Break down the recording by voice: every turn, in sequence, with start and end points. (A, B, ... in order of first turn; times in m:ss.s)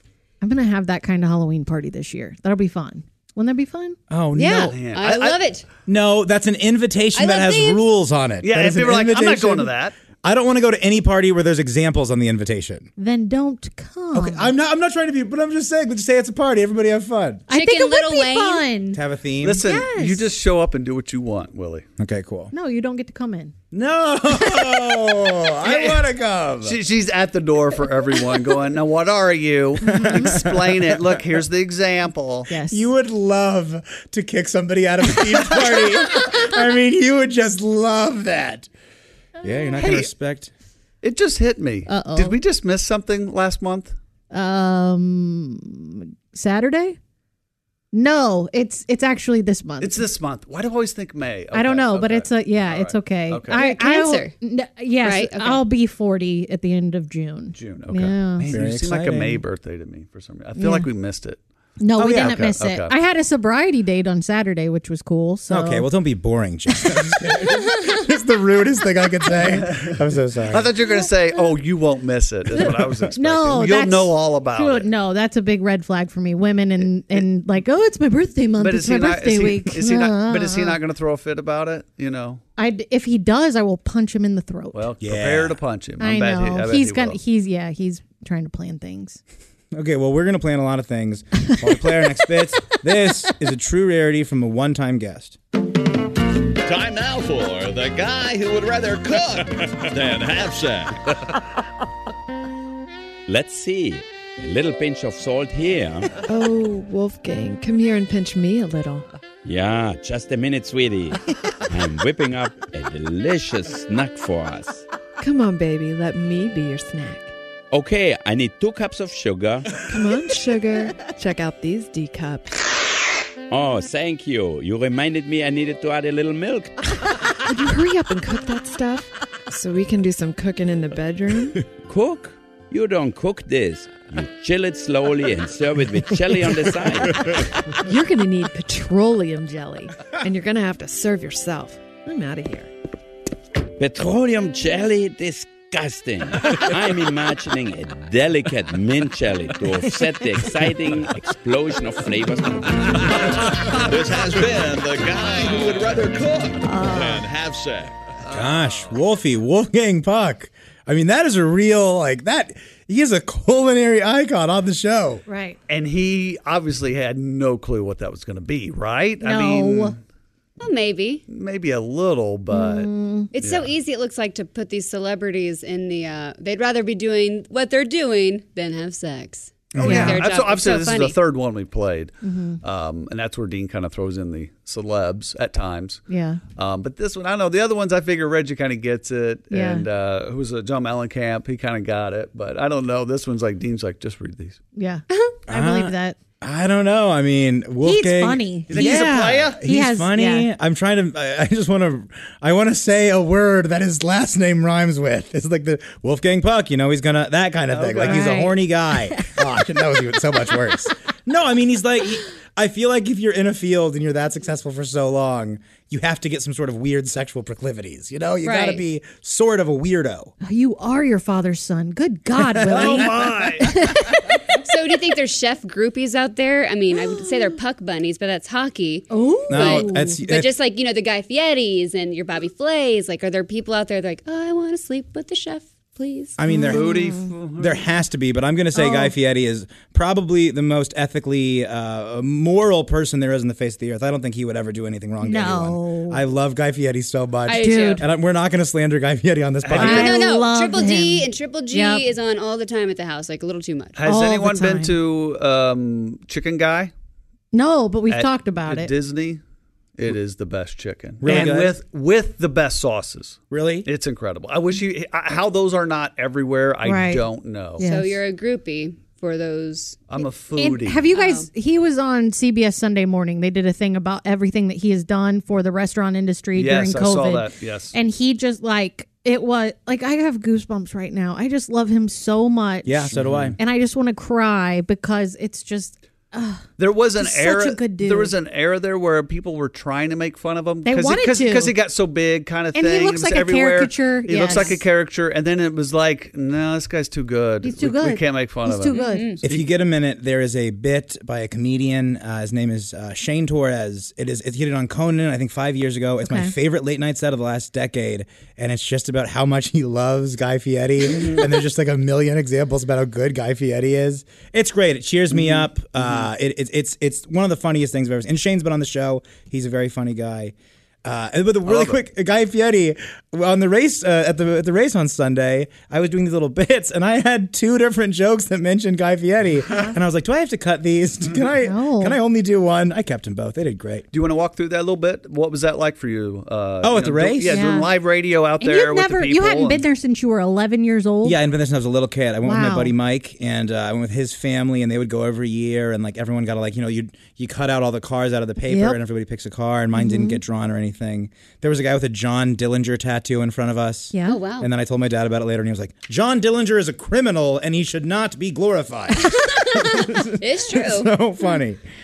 0:00.4-0:04.0 A
0:04.1-0:04.8 B
0:04.3-0:05.6 C
0:04.7-0:05.4 D
0:05.9-0:09.7 B
0:07.2-0:07.8 C
0:08.4-0:09.9 D
0:10.2-0:12.9 B
0:13.0-0:14.5 A
0:14.1-0:17.4 B
0:17.5-0:19.0 A
0:17.5-0:18.7 C
0:18.9-0:19.6 B
0:19.4-0:21.8 D
0:19.6-0:20.3 A
0:22.0-0:22.5 B
0:22.5-0:23.5 A
0:23.7-0:26.8 B
0:25.6-0:26.0 D
0:26.6-0:32.5 D
0:29.8-0:30.4 A
0:29.8-0:31.1 B
0:32.5-0:32.8 A
0:32.7-0:38.7 B
0:39.4-0:40.5 B
0:39.8-0:40.1 D
0:41.0-0:44.0 D
0:41.9-0:42.4 A
0:44.3-0:47.0 A
0:47.9-0:50.0 A
0:49.8-0:53.6 D
0:51.5-0:58.4 A
0:53.5-0:54.3 C
0:55.0-0:55.6 C
0:57.5-1:01.4 D
0:58.5-0:59.4 B
1:00.6-1:00.9 A
1:01.8-1:05.9 A
1:02.0-1:02.4 B
1:02.0-1:02.9 D
1:05.5-1:10.7 B
1:09.4-1:10.0 D
1:10.5-1:14.9 D
1:13.2-1:20.8 A
1:18.6-1:22.4 D
1:22.6-1:24.8 A
1:24.7-1:27.2 D
1:25.0-1:25.6 B
1:26.0-1:29.2 A
1:29.7-1:35.4 B
1:31.7-1:32.4 A
1:36.6-1:41.0 E
1:43.3-1:46.1 F
1:46.3-1:49.0 G
1:49.4-1:54.8 F
1:55.2-1:57.3 G
1:57.7-1:59.7 F
1:59.8-2:02.6 G
2:03.5-2:06.7 F
2:07.5-2:11.6 G
2:11.9-2:17.2 F
2:17.8-2:22.7 G
2:23.8-2:32.6 F
2:32.9-2:37.9 E
2:36.6-2:37.2 A
2:38.3-2:38.7 D
2:38.3-2:45.2 B
2:45.3-2:45.6 A
2:45.7-2:50.0 D
2:49.2-2:50.0 A
2:50.6-2:51.2 C
2:51.3-2:53.7 D
2:52.5-2:53.3 A
2:53.3-3:01.2 C
2:59.8-3:06.0 D
2:59.8-3:00.2 A
3:02.2-3:02.6 A
3:06.1-3:06.4 A
3:06.5-3:14.6 D
3:09.5-3:09.8 A
3:14.8-3:16.2 A
3:15.1-3:15.4 C
3:15.5-3:40.3 B
3:17.8-3:19.0 A
3:18.7-3:19.6 D
3:19.6-3:20.5 A
3:27.7-3:28.3 D
3:28.0-3:28.6 A
3:38.4-3:38.8 A
3:40.4-3:44.4 A
3:42.5-3:43.6 B
3:42.7-3:43.7 D
3:44.6-3:56.4 C
3:49.1-3:50.2 A
3:49.5-3:50.5 B
3:56.4-4:10.2 B
3:56.5-3:57.3 A
3:56.7-3:57.9 D
3:58.7-3:59.1 A
4:05.2-4:06.2 A
4:07.4-4:08.0 C
4:07.6-4:08.0 A
4:09.6-4:10.1 D
4:09.8-4:12.1 A
4:09.8-4:14.0 C
4:14.0-4:16.9 D
4:14.0-4:14.9 A
4:17.5-4:18.9 A
4:18.1-4:19.4 D
4:20.0-4:27.8 D
4:21.2-4:21.8 B
4:23.5-4:23.9 B
4:26.8-4:27.2 A
4:27.8-4:28.2 A
4:27.8-4:30.2 C
4:30.1-4:31.1 D
4:30.6-4:48.3 A
4:31.1-4:31.5 C
4:36.6-4:37.9 D
4:42.8-4:43.6 B
4:43.1-4:43.5 D
4:46.8-4:59.7 D
4:50.8-4:51.7 A
4:52.7-4:54.8 A
4:54.4-4:54.8 C
4:57.6-4:59.3 A
4:58.9-4:59.4 C
4:59.4-5:34.0 B
5:06.2-5:06.5 A
5:11.1-5:11.4 D
5:15.3-5:16.2 D
5:21.6-5:22.0 D
5:31.6-5:32.2 A
5:34.1-5:39.8 D
5:36.8-5:37.6 B
5:37.5-5:37.9 A
5:38.6-5:41.4 A
5:41.2-6:01.8 B
5:42.4-5:42.9 A
5:48.7-5:49.0 A
5:49.9-5:50.4 A
5:54.1-5:54.4 A
5:54.3-5:54.7 C
5:59.8-6:01.1 C